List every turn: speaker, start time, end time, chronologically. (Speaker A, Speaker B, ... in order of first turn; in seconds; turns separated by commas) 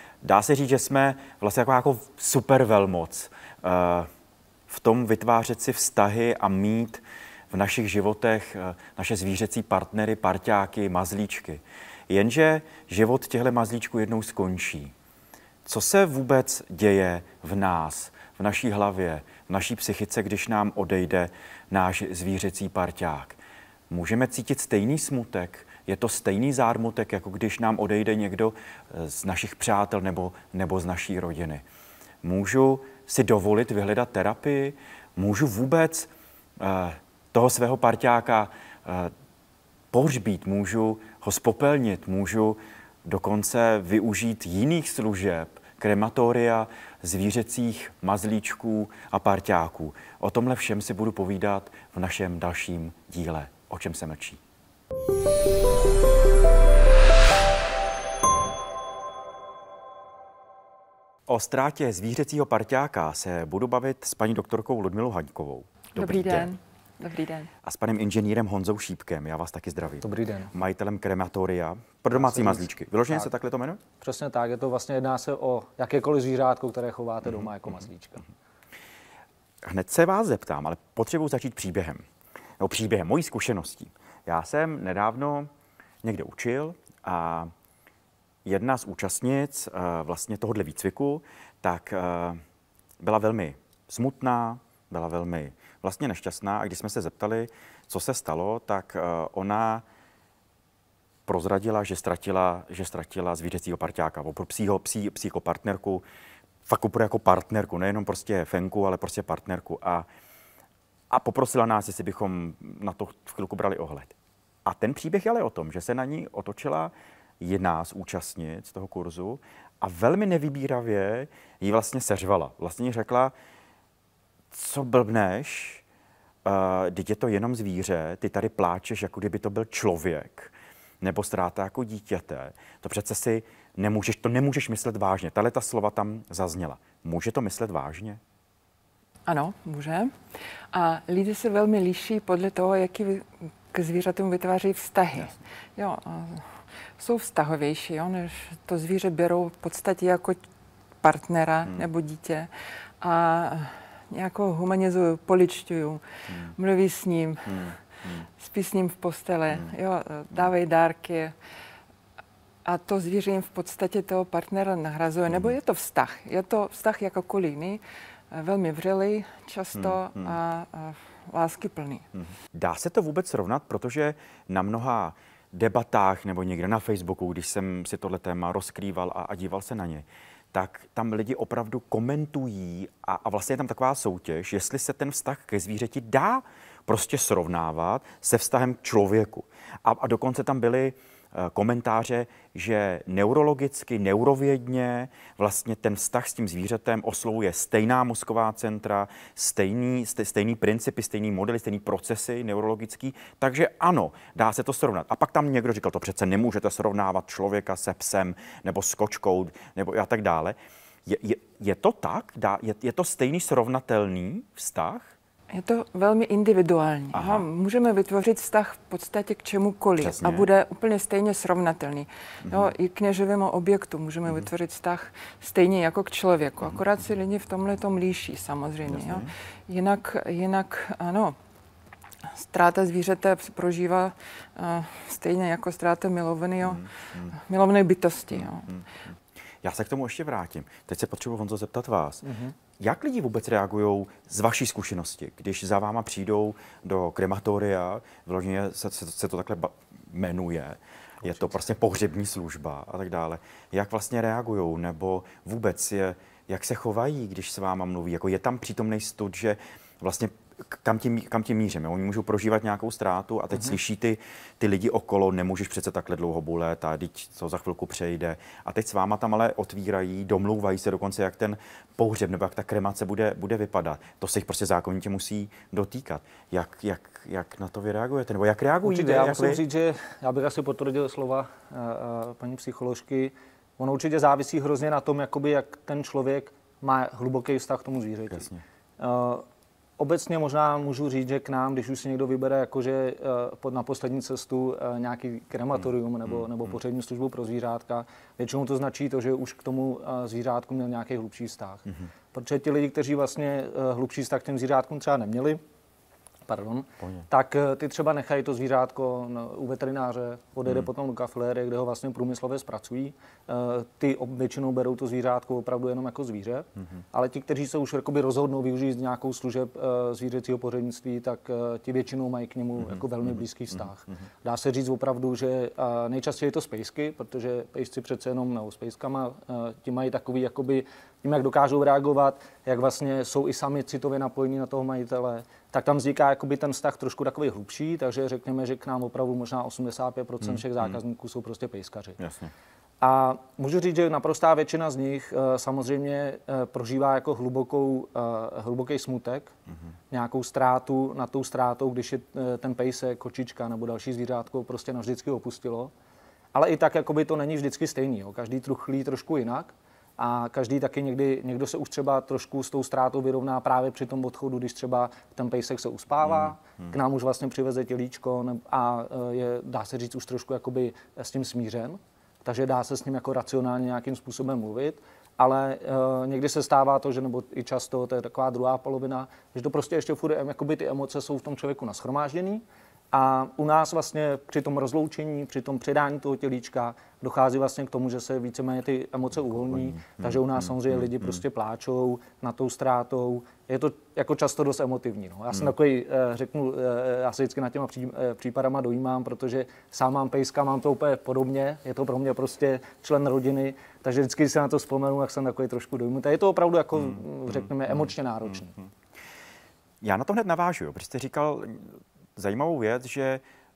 Speaker A: 0.2-4.1, Speaker A: 4.7-14.9, Speaker A: 15.7-23.4, Speaker A: 23.9-31.6, Speaker A: 32.2-39.1, Speaker A: 39.9-54.4, Speaker A: 61.3-66.5, Speaker B: 66.0-67.5, Speaker A: 67.6-73.8, Speaker C: 70.0-70.5, Speaker C: 72.1-73.3, Speaker C: 74.0-78.2, Speaker A: 79.6-82.0, Speaker A: 82.6-85.5, Speaker A: 86.0-87.5, Speaker A: 88.5-92.4, Speaker A: 93.0-99.8, Speaker A: 101.3-106.0, Speaker A: 106.7-110.1, Speaker A: 111.1-123.3, Speaker A: 124.5-125.8, Speaker A: 126.5-138.2, Speaker B: 139.3-140.2, Speaker B: 140.7-150.4, Speaker B: 151.0-152.5, Speaker B: 153.0-157.7, Speaker A: 156.3-156.5, Speaker A: 157.5-158.2, Speaker B: 158.4-161.3, Speaker B: 162.7-172.1, Speaker A: 165.3-165.6, Speaker A: 169.8-170.4, Speaker A: 172.5-215.1, Speaker B: 215.5-231.4, Speaker A: 217.1-217.5, Speaker A: 220.0-220.5, Speaker A: 222.4-222.7, Speaker A: 228.9-229.3, Speaker B: 232.3-238.7, Speaker A: 236.6-237.3, Speaker A: 238.3-238.8, Speaker A: 239.6-242.2, Speaker C: 242.2-242.6, Speaker A: 242.8-279.6, Speaker C: 278.8-289.4, Speaker A: 288.3-288.6, Speaker C: 290.0-305.6, Speaker C: 306.5-342.2, Speaker A: 340.4-341.0, Speaker A: 342.2-342.5, Speaker C: 343.0-349.5, Speaker C: 350.1-355.9, Speaker C: 356.5-408.8, Speaker A: 366.2-367.0, Speaker A: 389.7-391.4, Speaker A: 410.0-413.4